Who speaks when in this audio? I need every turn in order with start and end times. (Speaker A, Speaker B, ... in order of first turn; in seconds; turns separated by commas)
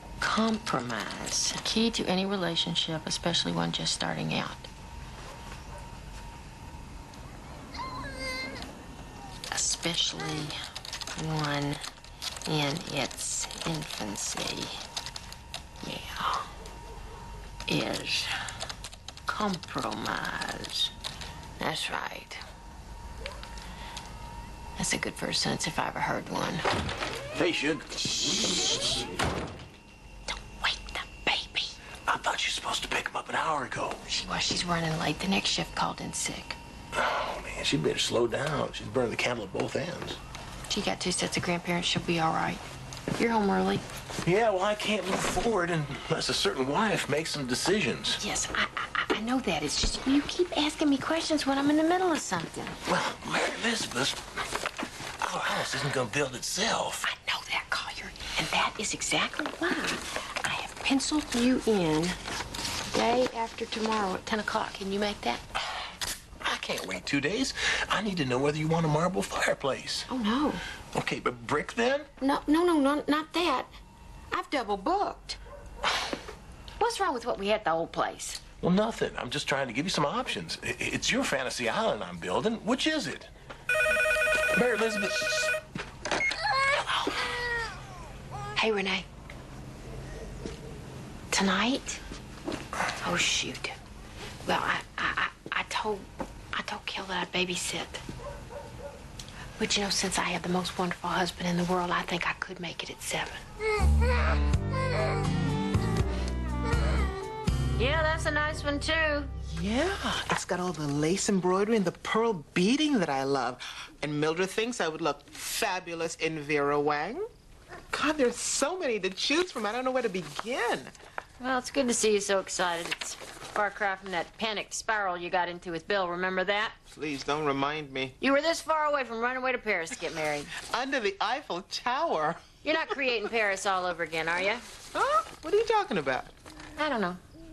Speaker A: 0.2-4.7, Speaker A: 9.5-10.6, Speaker A: 11.2-11.8, Speaker A: 12.5-14.8, Speaker A: 15.8-16.5, Speaker A: 17.7-18.3, Speaker A: 19.3-20.9, Speaker A: 21.6-22.4, Speaker A: 24.8-26.6, Speaker B: 27.4-28.8, Speaker A: 30.3-31.7, Speaker B: 32.1-34.0, Speaker A: 34.1-36.6, Speaker B: 36.9-40.2, Speaker A: 40.7-42.6, Speaker A: 43.2-43.8, Speaker B: 44.2-48.2, Speaker A: 48.1-52.8, Speaker B: 52.9-54.2, Speaker B: 55.2-57.0, Speaker A: 57.0-62.2, Speaker A: 62.9-65.4, Speaker B: 66.4-70.1, Speaker A: 70.1-70.6, Speaker B: 70.9-72.1, Speaker A: 72.2-73.7, Speaker A: 74.3-75.4, Speaker A: 76.8-78.4, Speaker B: 78.6-83.3, Speaker B: 84.5-85.5, Speaker A: 86.8-87.2, Speaker A: 88.6-89.1, Speaker A: 91.3-92.0, Speaker A: 93.0-93.8, Speaker A: 94.5-98.0, Speaker A: 99.6-103.4, Speaker A: 107.8-109.3, Speaker C: 109.5-117.3, Speaker C: 117.9-120.9, Speaker A: 121.4-126.8, Speaker C: 126.9-128.2, Speaker A: 128.2-130.5, Speaker C: 130.7-132.4, Speaker A: 132.6-134.6, Speaker C: 134.9-136.3, Speaker A: 136.8-137.2